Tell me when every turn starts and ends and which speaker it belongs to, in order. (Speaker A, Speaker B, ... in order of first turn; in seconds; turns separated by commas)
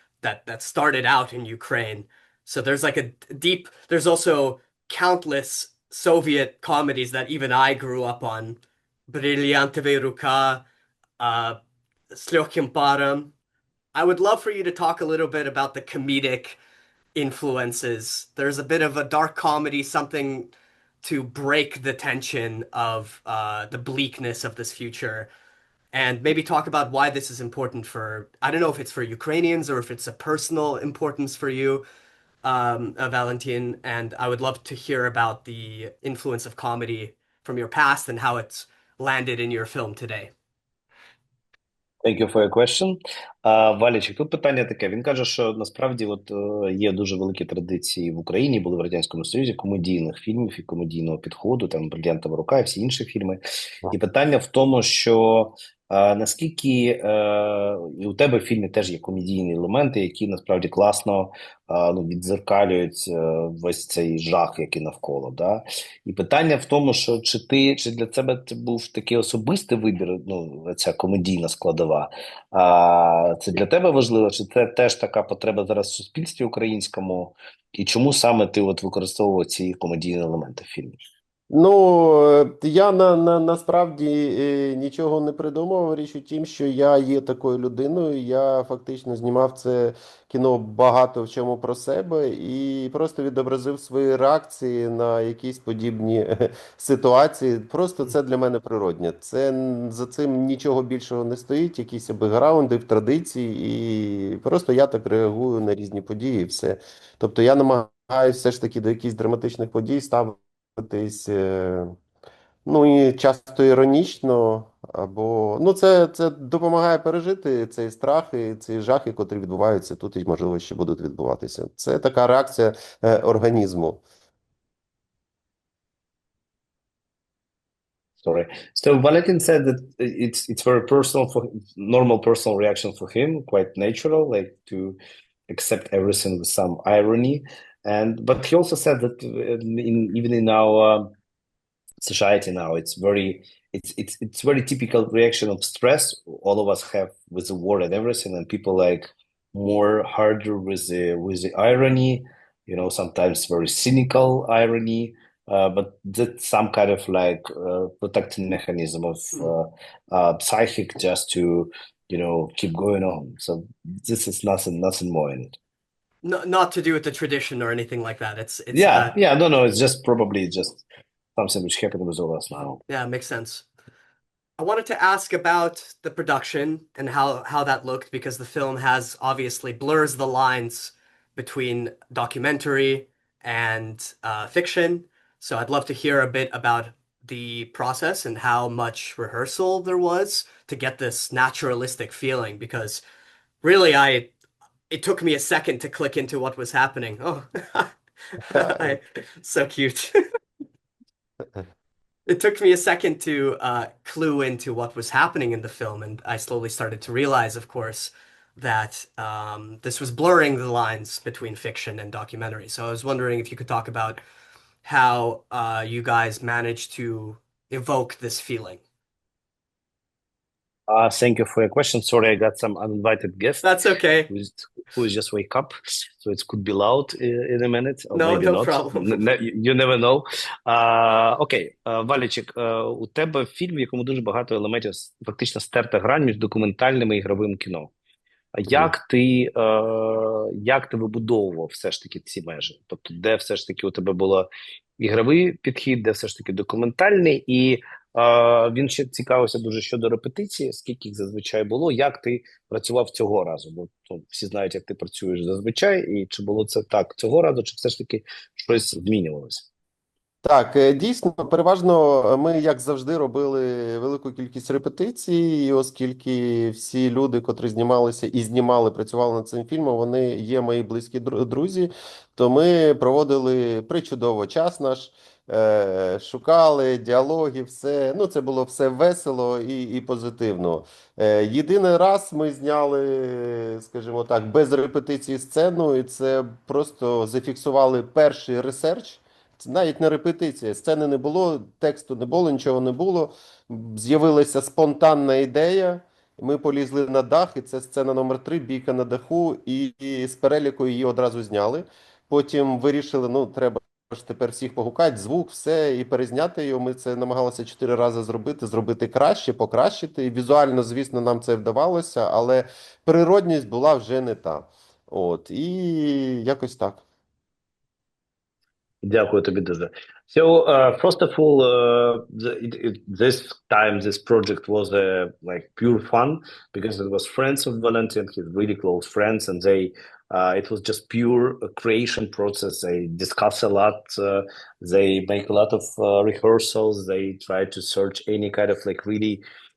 Speaker A: 0.2-10.6, Speaker A: 11.2-11.6, Speaker A: 12.1-13.3, Speaker A: 13.9-16.6, Speaker A: 17.1-25.3, Speaker A: 25.9-31.8, Speaker A: 32.4-40.3, Speaker B: 42.0-81.0, Speaker C: 81.5-112.0, Speaker C: 112.7-124.0, Speaker B: 128.2-135.0, Speaker B: 135.5-141.1, Speaker B: 142.0-165.6, Speaker A: 166.2-169.1, Speaker B: 168.7-170.8, Speaker B: 171.4-172.8, Speaker A: 172.9-173.7, Speaker A: 174.6-193.0, Speaker A: 193.6-194.3, Speaker A: 194.9-200.2, Speaker A: 202.3-214.2, Speaker A: 214.8-218.8, Speaker B: 220.9-223.7, Speaker A: 223.6-224.3, Speaker B: 224.3-237.9, Speaker A: 228.1-229.1, Speaker B: 238.5-244.5, Speaker B: 245.0-259.7, Speaker C: 260.4-317.0, Speaker B: 319.0-339.4